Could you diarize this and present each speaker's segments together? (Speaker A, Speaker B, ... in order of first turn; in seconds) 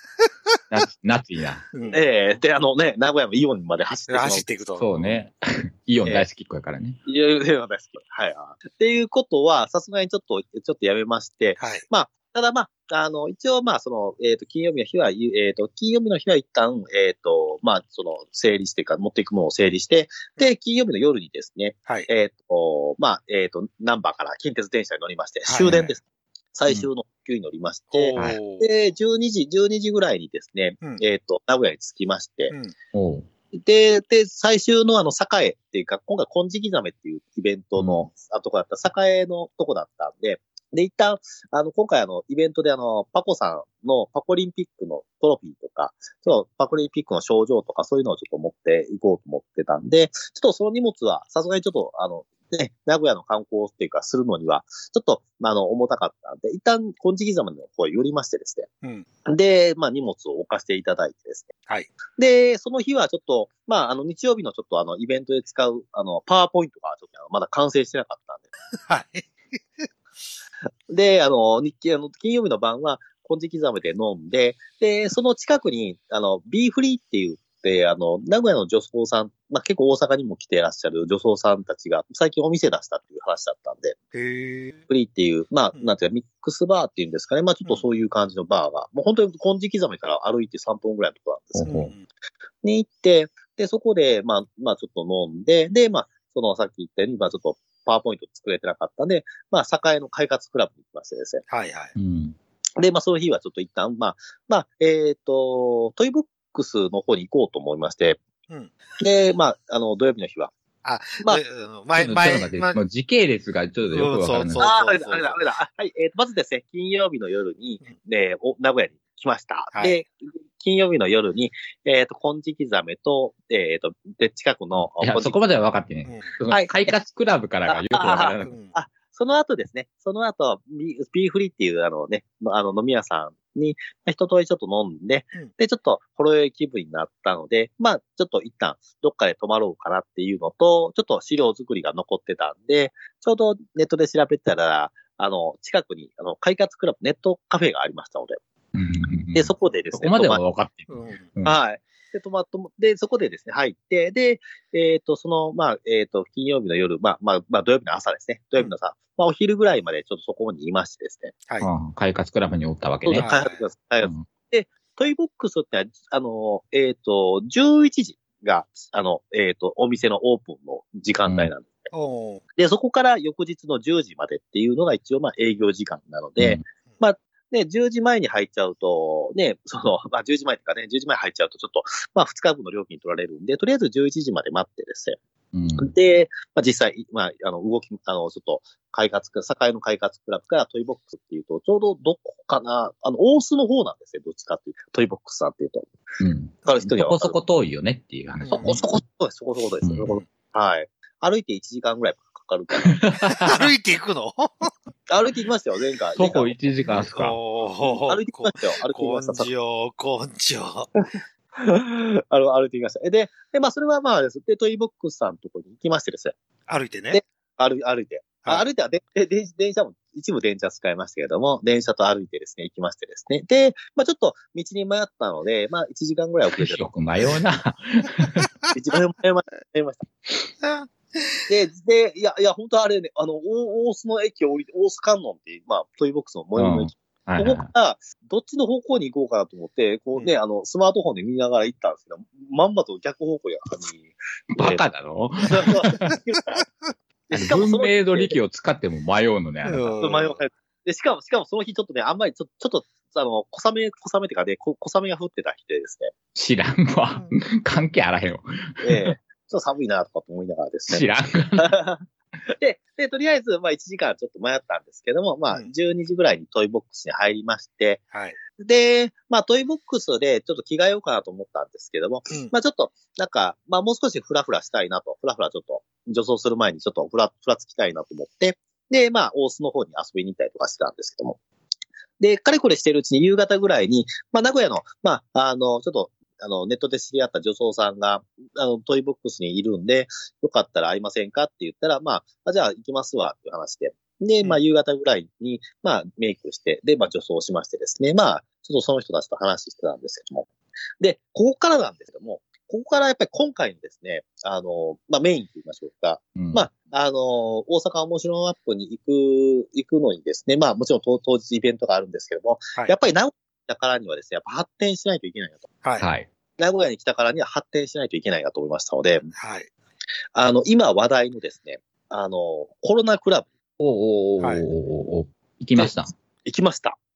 Speaker A: 0.7-1.7, 4.8-7.0, 32.9-33.3, 37.8-38.1, 91.5-91.9, 102.0-102.4, 111.9-114.7, 125.0-128.5, 148.7-151.6, 161.6-163.3, 164.0-164.3, 171.2-171.5, 176.4-176.6, 185.5-185.9, 196.2-198.9, 199.8-200.1, 203.0-203.7, 206.2-207.4, 226.5-228.5, 236.6-237.7, 244.5-246.1, 247.3-249.9, 256.3-259.1, 260.9-261.7, 306.4-306.6, 316.0-316.3, 323.8-326.1
Speaker B: 1.7-2.0, 4.1-5.1, 11.6-11.8, 25.5-25.9, 27.9-28.7, 68.9-69.9, 84.1-84.8, 91.7-92.0, 101.5-101.9, 110.8-112.8, 113.9-115.4, 126.0-126.3, 128.4-128.7, 150.9-151.3, 163.2-163.6, 171.9-172.4, 198.4-198.8, 203.4-204.7, 206.8-210.9, 216.7-217.2, 230.6-231.4, 249.6-250.4, 268.1-268.4, 319.4-319.7
Speaker C: 1.9-4.5, 7.0-32.5, 33.5-58.7, 59.2-61.5, 62.1-68.5, 70.9-84.0, 84.9-91.7, 92.6-101.4, 102.8-108.2, 109.0-110.5, 114.6-125.4, 126.5-126.9, 127.7-148.4, 149.3-150.4, 151.4-161.3, 163.0-171.9, 172.6-185.2, 185.8-195.9, 196.6-197.4, 198.5-203.3, 205.1-206.6, 208.0-209.5, 211.6-216.3, 217.1-226.9, 228.7-230.1, 231.5-244.8, 245.4-246.6, 247.3-248.4, 250.0-256.1, 258.8-262.1, 262.6-268.0, 268.6-281.4, 282.2-300.5, 301.0-315.7, 316.6-319.3, 320.3-323.5, 325.8-327.0